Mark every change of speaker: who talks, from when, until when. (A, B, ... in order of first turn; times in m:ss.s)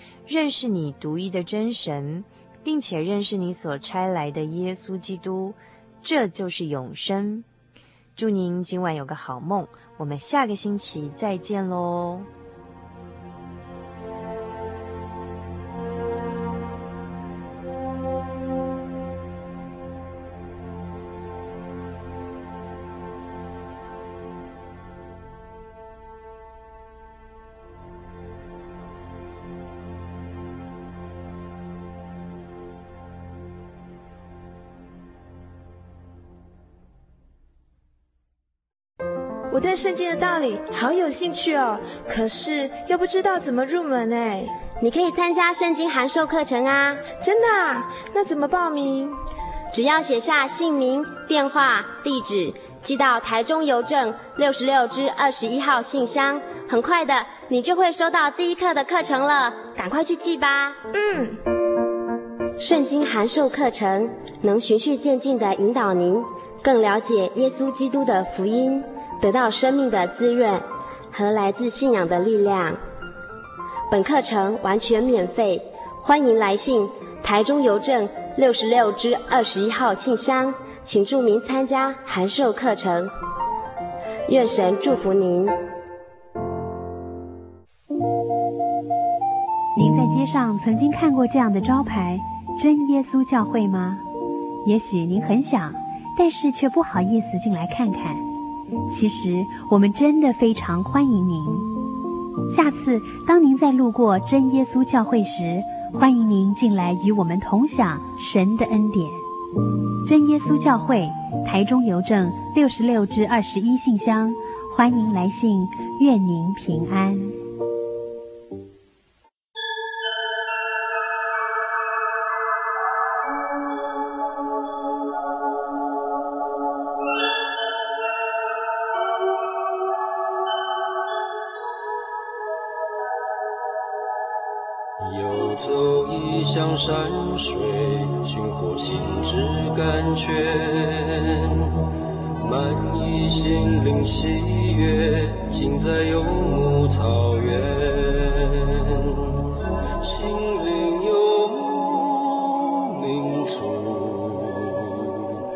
0:00.3-0:07.5 A
0:08.2-0:12.3 A
0:39.5-0:44.6 B
0:44.8-0:47.1 C
0:47.2-0:49.2 B
0:49.7-1:00.8 C
1:00.9-1:01.4 B
1:02.6-1:12.8 C
1:13.9-1:23.1 C
1:24.3-1:25.5 C
1:29.8-1:34.0 D
1:34.6-1:38.2 D
1:38.9-1:41.7 D
1:42.5-1:49.2 D
1:50.0-1:57.4 D
2:15.0-2:21.7 E
2:22.4-2:29.4 E
2:30.0-2:35.2 E